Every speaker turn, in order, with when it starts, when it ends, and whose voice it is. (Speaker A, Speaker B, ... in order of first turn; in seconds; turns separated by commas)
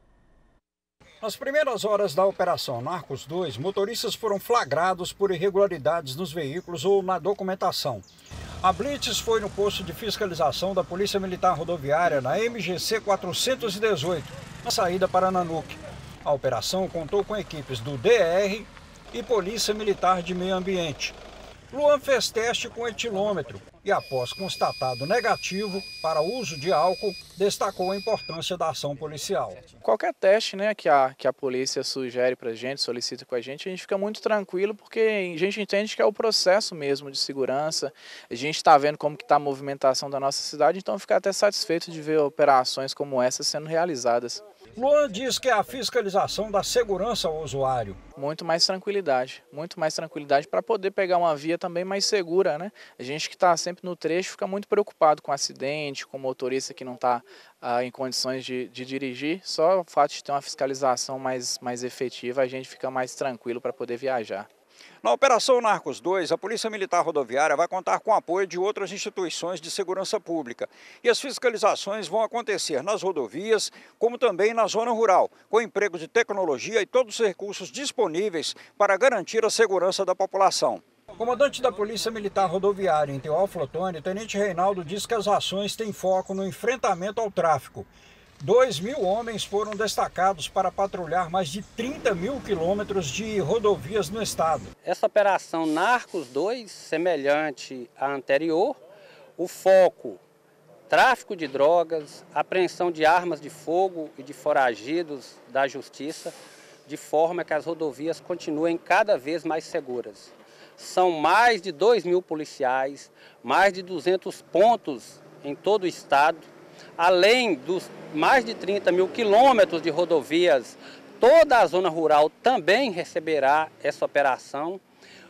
Speaker A: 1.2-8.1, Speaker A: 8.6-21.2, Speaker A: 21.7-29.6, Speaker B: 29.8-44.4, Speaker A: 44.8-48.0, Speaker B: 48.2-64.5, Speaker A: 65.0-87.9, Speaker A: 88.4-94.7, Speaker C: 94.8-98.8, Speaker C: 99.4-100.2, Speaker C: 100.9-124.8